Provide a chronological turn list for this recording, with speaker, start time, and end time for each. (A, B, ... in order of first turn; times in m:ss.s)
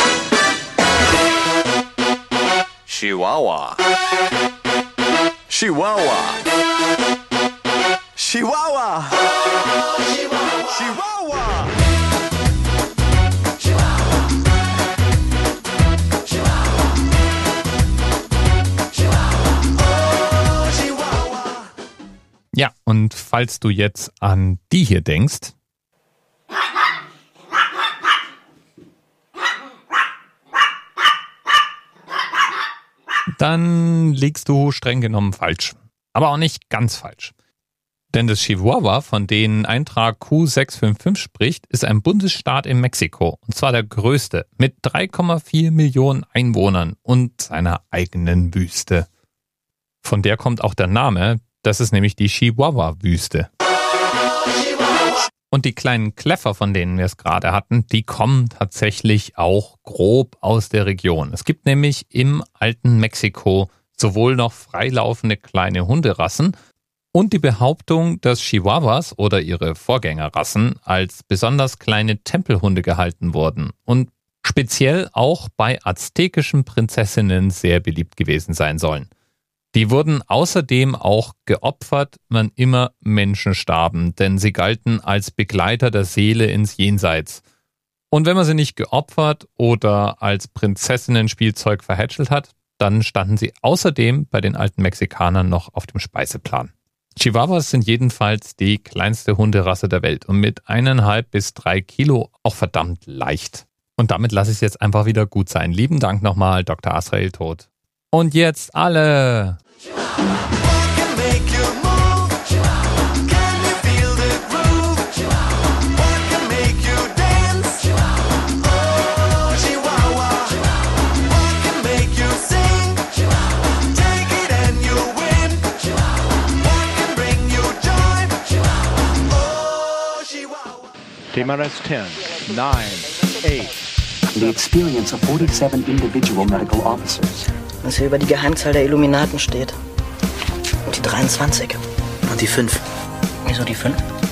0:02.9-0:03.7 A
0:03.0-0:03.8 B
0:05.5-0:06.4 A
0:08.2-0:09.2 A
0:10.7-0:11.7 A
0:22.5-0:25.5 C
0:33.4-0:37.3 C
0:38.1-0:49.1 C
0:50.0-0:53.5 C
0:55.5-1:06.6 C
1:07.1-1:19.1 C
1:19.7-1:27.4 C
1:28.1-1:49.6 C
1:51.0-1:51.9 A
1:53.7-1:55.0 A
1:56.2-1:57.8 A
1:59.5-2:00.2 A
2:01.7-2:02.8 A
2:04.0-2:05.7 A
2:06.7-2:08.3 A
2:10.0-2:10.5 A
2:11.3-2:13.8 B
2:14.3-2:17.4 D
2:17.8-2:19.8 E
2:20.8-2:22.8 E
2:23.4-2:24.0 E